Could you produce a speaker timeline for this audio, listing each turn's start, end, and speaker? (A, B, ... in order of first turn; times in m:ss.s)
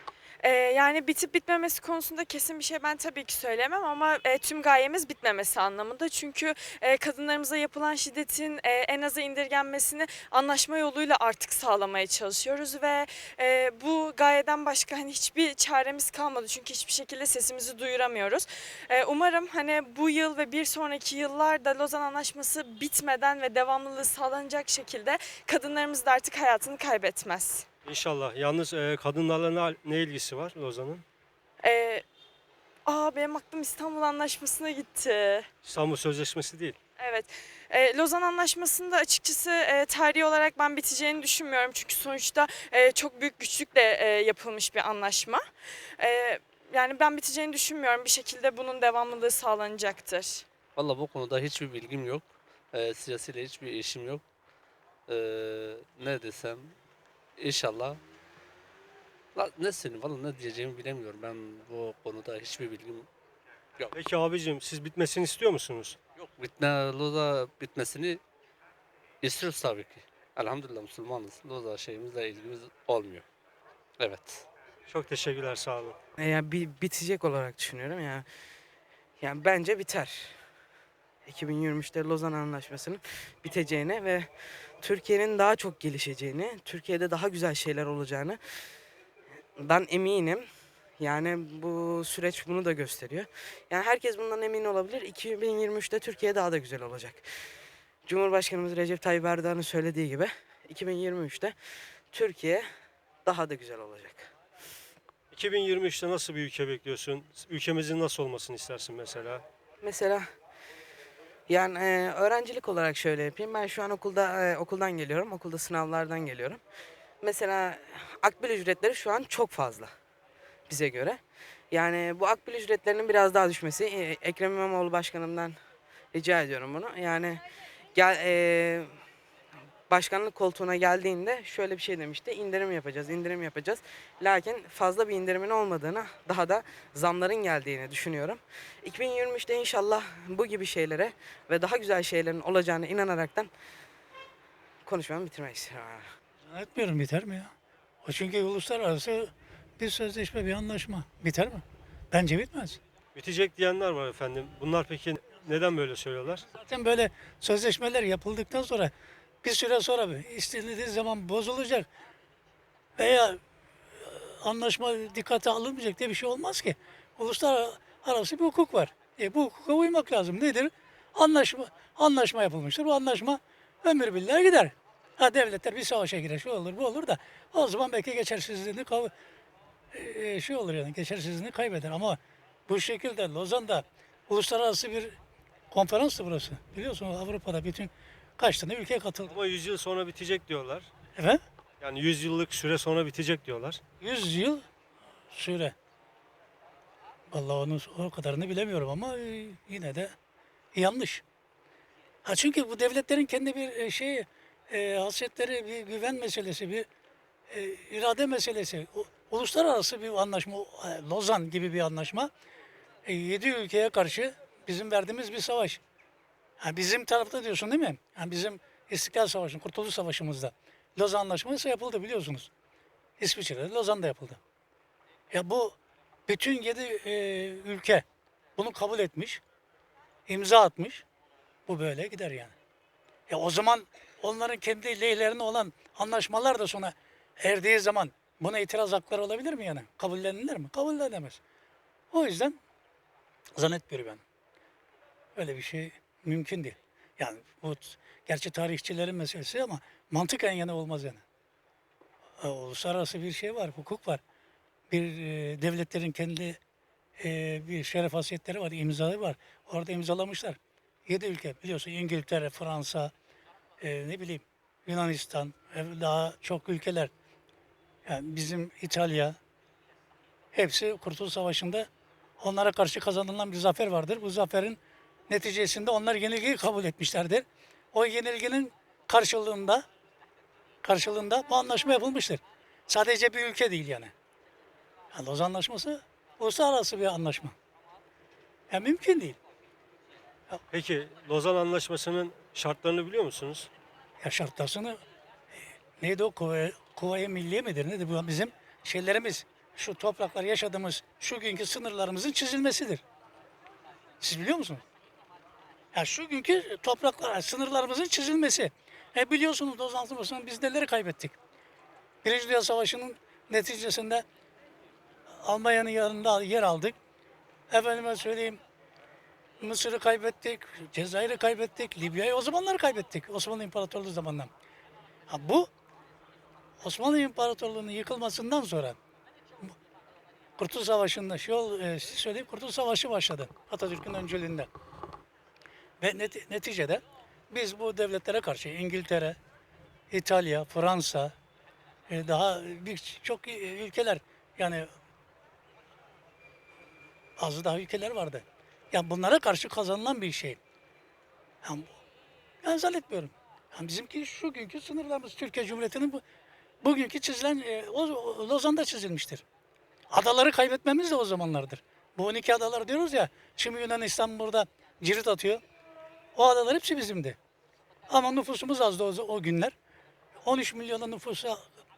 0:00.4-0:27.6 A
0:27.8-0:31.0 B
0:31.6-0:32.0 A
0:32.8-0:35.5 A
0:35.6-0:36.8 B
0:37.0-0:45.4 A
0:46.0-0:50.4 A
0:50.8-0:54.2 C
0:55.1-0:56.7 C
0:57.4-0:58.0 C
0:59.3-1:03.1 C
1:03.9-1:06.0 B
1:06.2-1:08.2 C
1:09.2-1:13.2 C
1:14.0-1:14.4 C
1:14.9-1:16.0 B
1:16.2-1:18.2 D
1:19.2-1:20.3 D
1:21.2-1:24.3 D
1:24.8-1:28.4 D
1:29.6-1:30.4 D
1:31.0-1:37.2 D
1:38.0-1:41.5 D
1:42.1-1:42.6 D
1:43.2-1:44.3 D
1:45.3-1:49.4 B
1:49.8-1:50.2 D
1:51.5-1:56.6 D
1:57.2-1:59.9 D
2:00.7-2:01.2 D
2:01.7-2:05.6 D
2:06.1-2:08.9 D
2:09.9-2:23.5 D
2:24.8-2:26.0 D
2:26.5-2:27.5 E
2:28.0-2:32.8 E
2:33.1-2:36.4 B
2:36.5-2:38.9 E
2:39.4-2:41.9 E
2:43.0-2:43.4 E
2:44.0-2:59.1 E
2:59.9-3:05.2 E
3:05.7-3:09.3 E
3:09.3-3:10.9 B
3:11.2-3:11.4 E
3:11.8-3:13.8 B
3:14.0-3:14.6 E
3:15.3-3:15.7 E
3:17.3-3:20.1 E
3:20.7-3:21.2 E
3:22.2-3:26.8 E
3:27.5-3:32.3 E
3:33.0-3:35.8 E
3:36.6-3:42.5 E
3:43.2-3:44.4 E
3:45.3-3:48.0 E
3:48.6-3:49.4 E
3:50.3-3:51.0 E
3:51.6-3:52.5 E
3:53.3-4:01.4 E
4:02.1-4:02.6 E
4:03.6-4:04.2 E
4:05.3-4:11.2 E
4:12.4-4:14.2 E
4:14.9-4:16.6 E
4:17.2-4:23.1 E
4:23.8-4:27.1 E
4:28.0-4:29.4 E
4:30.5-4:31.9 E
4:32.4-4:39.8 E
4:40.8-4:44.1 E
4:45.1-4:47.5 E
4:48.7-4:49.4 E
4:50.7-4:53.7 B
4:54.2-4:55.0 E
4:56.0-5:03.0 E
5:04.2-5:04.8 E
5:05.9-5:11.4 E
5:12.2-5:14.2 E
5:15.4-5:17.0 E
5:17.7-5:18.6 E
5:19.6-5:24.5 E
5:25.3-5:25.7 E
5:26.8-5:29.0 E
5:30.6-5:34.7 E
5:36.0-5:39.4 E
5:40.1-5:41.3 E
5:42.1-5:44.9 E
5:47.4-5:50.6 E
5:51.6-5:51.9 E
5:52.6-5:56.2 E
5:56.8-5:59.4 E
6:00.1-6:05.6 E
6:06.3-6:07.4 E
6:08.1-6:09.7 E
6:10.4-6:11.6 E